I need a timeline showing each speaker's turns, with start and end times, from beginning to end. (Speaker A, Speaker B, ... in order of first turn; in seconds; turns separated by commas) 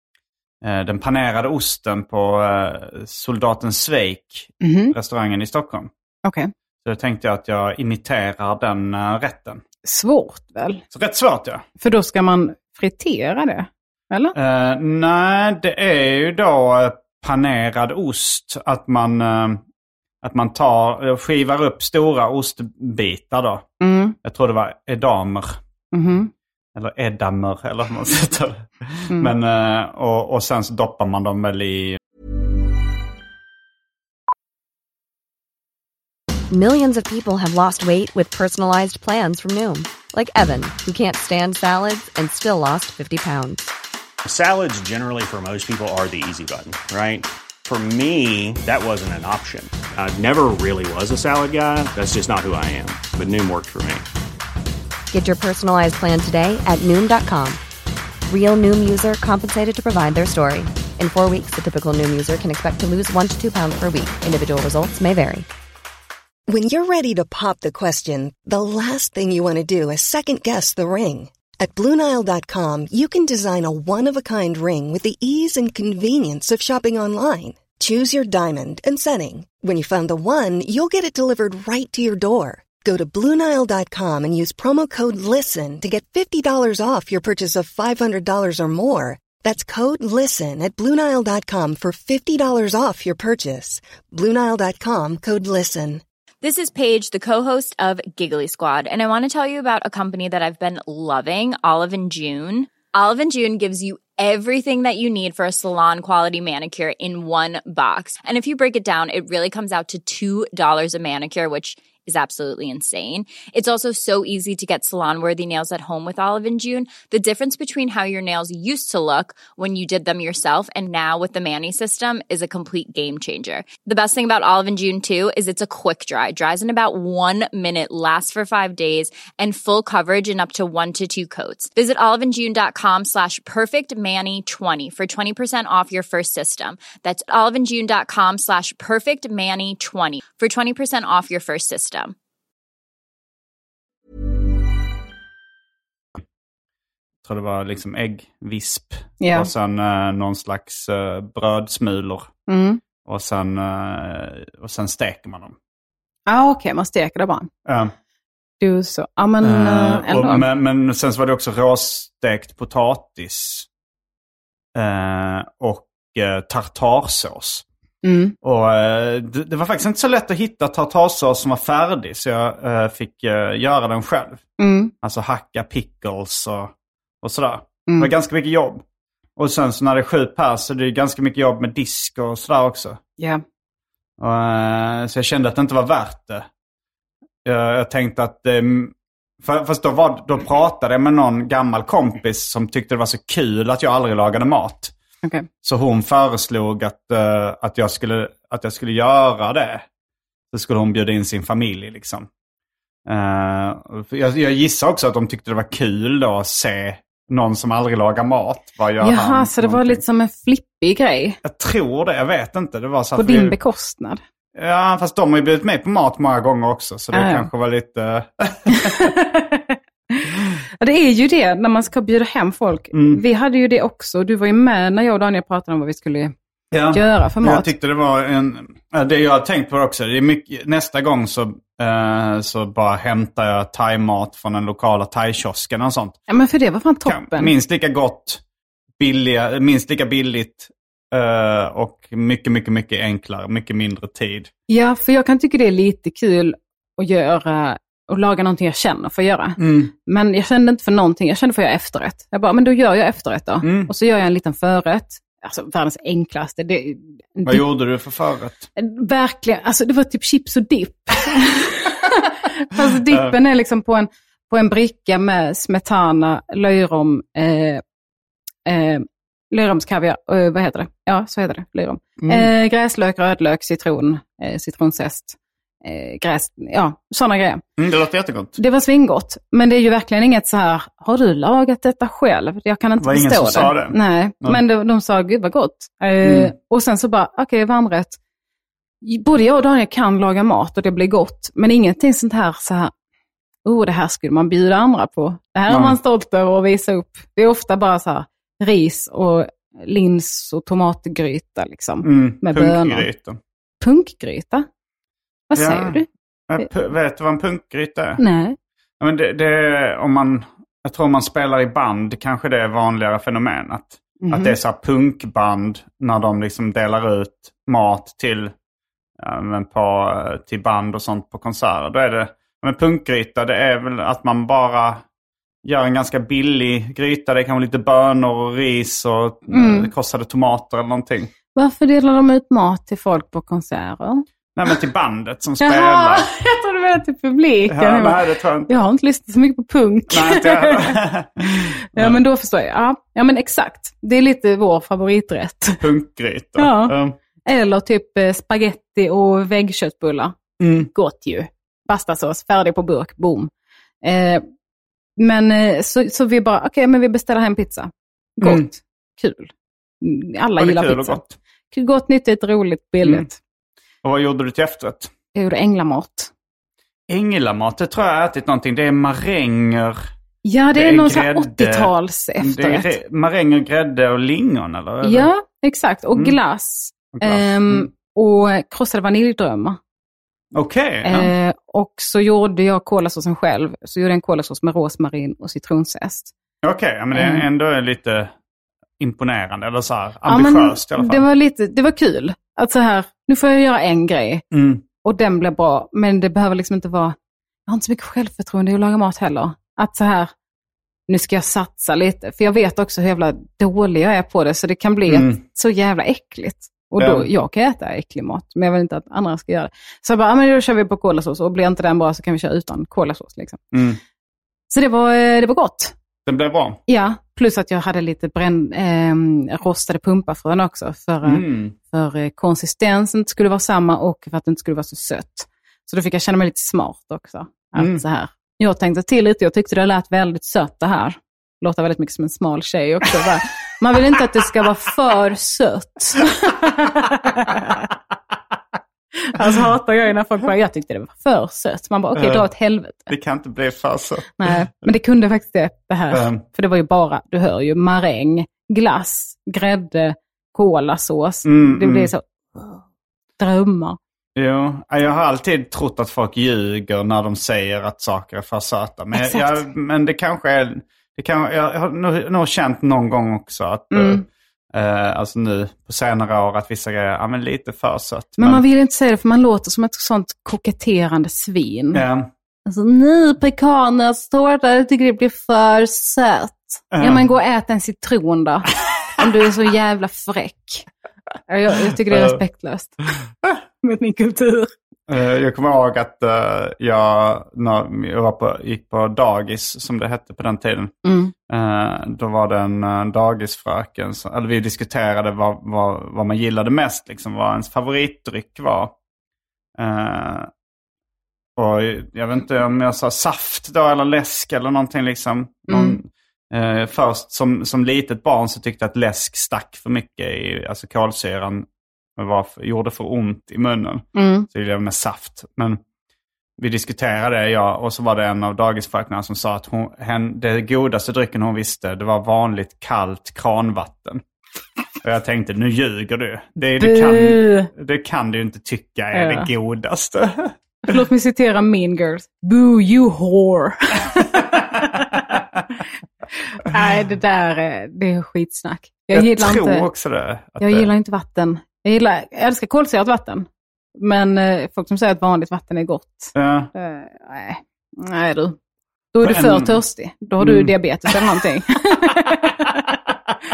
Speaker A: 0.6-5.9, Speaker B: 4.6-4.9, Speaker B: 6.2-6.5, Speaker A: 6.8-9.6, Speaker B: 9.8-10.8, Speaker A: 10.9-11.6, Speaker B: 11.8-14.3, Speaker A: 14.3-19.6, Speaker A: 20.2-23.6, Speaker B: 23.8-24.1, Speaker A: 24.2-25.6, Speaker B: 25.9-26.3, Speaker A: 26.7-32.0, Speaker C: 36.5-43.7, Speaker D: 44.2-54.0, Speaker C: 55.1-57.6, Speaker C: 58.3-65.4, Speaker E: 66.5-96.0, Speaker F: 96.4-142.1, Speaker A: 147.2-152.3, Speaker B: 149.2-149.5, Speaker B: 152.5-152.8, Speaker A: 153.0-155.6, Speaker B: 156.3-157.5, Speaker A: 157.7-157.9, Speaker B: 158.6-160.4, Speaker A: 159.4-163.7, Speaker A: 164.7-167.6, Speaker B: 168.0-168.3, Speaker A: 168.4-174.4, Speaker B: 174.6-174.9, Speaker A: 175.0-178.8, Speaker A: 179.4-183.0, Speaker A: 184.2-186.5, Speaker A: 187.4-194.9, Speaker A: 195.6-199.8, Speaker A: 200.5-202.3, Speaker A: 203.1-210.0, Speaker B: 209.0-211.4, Speaker A: 211.4-213.6, Speaker B: 213.2-214.2, Speaker A: 214.5-219.1, Speaker B: 217.1-217.5, Speaker B: 218.7-226.3, Speaker A: 222.9-223.2, Speaker A: 226.7-236.2, Speaker B: 226.9-227.7, Speaker B: 236.3-237.5, Speaker A: 237.1-238.4, Speaker A: 239.0-244.5, Speaker B: 244.7-257.6, Speaker A: 249.6-249.9, Speaker A: 253.6-253.9, Speaker A: 257.4-258.7, Speaker B: 258.8-267.8, Speaker A: 263.1-263.3, Speaker B: 268.6-277.6, Speaker A: 272.2-272.5, Speaker A: 277.8-278.6, Speaker B: 278.6-288.2, Speaker A: 283.0-284.6, Speaker A: 286.2-286.5, Speaker B: 289.0-292.9, Speaker B: 293.6-303.1, Speaker A: 295.7-296.0, Speaker A: 302.0-303.4, Speaker B: 303.8-304.6, Speaker B: 305.5-306.1, Speaker A: 305.5-308.2, Speaker B: 308.2-308.6, Speaker A: 309.0-318.5, Speaker B: 314.2-314.6, Speaker A: 319.2-325.0, Speaker A: 325.6-331.3, Speaker B: 329.5-329.9, Speaker B: 331.5-334.2, Speaker A: 334.5-336.3, Speaker B: 335.6-341.0, Speaker A: 337.7-338.7, Speaker A: 340.1-342.2, Speaker B: 341.5-345.8, Speaker A: 345.8-347.2, Speaker B: 346.6-346.9, Speaker B: 347.4-353.5, Speaker A: 350.6-350.9, Speaker B: 354.0-354.4, Speaker B: 355.2-363.4, Speaker A: 358.4-358.7, Speaker A: 360.6-361.4, Speaker A: 363.0-363.3, Speaker A: 364.0-365.1, Speaker B: 365.3-366.3, Speaker A: 367.1-370.0, Speaker B: 370.4-372.9, Speaker A: 370.7-375.3, Speaker B: 375.0-379.8, Speaker A: 377.1-377.9, Speaker A: 380.5-381.3, Speaker B: 381.0-386.3, Speaker A: 386.6-388.3, Speaker B: 387.1-387.4, Speaker A: 389.0-391.2, Speaker B: 390.3-394.4, Speaker A: 394.5-394.8, Speaker B: 395.0-397.1, Speaker B: 397.7-400.3, Speaker B: 401.1-413.6, Speaker A: 405.1-405.4, Speaker A: 407.0-407.3, Speaker A: 413.7-414.0, Speaker B: 414.7-415.9, Speaker A: 416.2-416.8, Speaker B: 416.9-437.9, Speaker A: 421.2-421.7, Speaker A: 427.8-428.0, Speaker B: 439.2-443.1, Speaker A: 442.1-442.5, Speaker A: 443.1-444.5, Speaker B: 444.4-452.8, Speaker A: 446.1-446.4, Speaker A: 451.4-452.1, Speaker B: 453.4-454.0, Speaker A: 454.4-468.6, Speaker B: 459.1-459.6, Speaker B: 463.9-464.2, Speaker B: 468.4-472.0, Speaker A: 471.9-472.3, Speaker B: 472.6-480.9, Speaker A: 476.9-477.2, Speaker B: 481.5-483.0, Speaker A: 482.1-482.4, Speaker B: 483.8-484.7, Speaker A: 485.1-490.9, Speaker B: 491.0-491.3, Speaker A: 491.5-498.9, Speaker A: 499.8-500.5, Speaker A: 501.6-515.8, Speaker B: 505.7-506.0, Speaker B: 514.1-514.5, Speaker A: 516.6-524.2, Speaker A: 525.0-530.5, Speaker B: 526.8-527.7, Speaker B: 529.1-529.5, Speaker B: 530.9-535.2, Speaker B: 536.6-539.9, Speaker A: 539.1-540.9, Speaker B: 540.6-548.6, Speaker A: 546.3-546.7, Speaker B: 549.1-553.0, Speaker A: 549.2-549.8, Speaker A: 550.4-551.1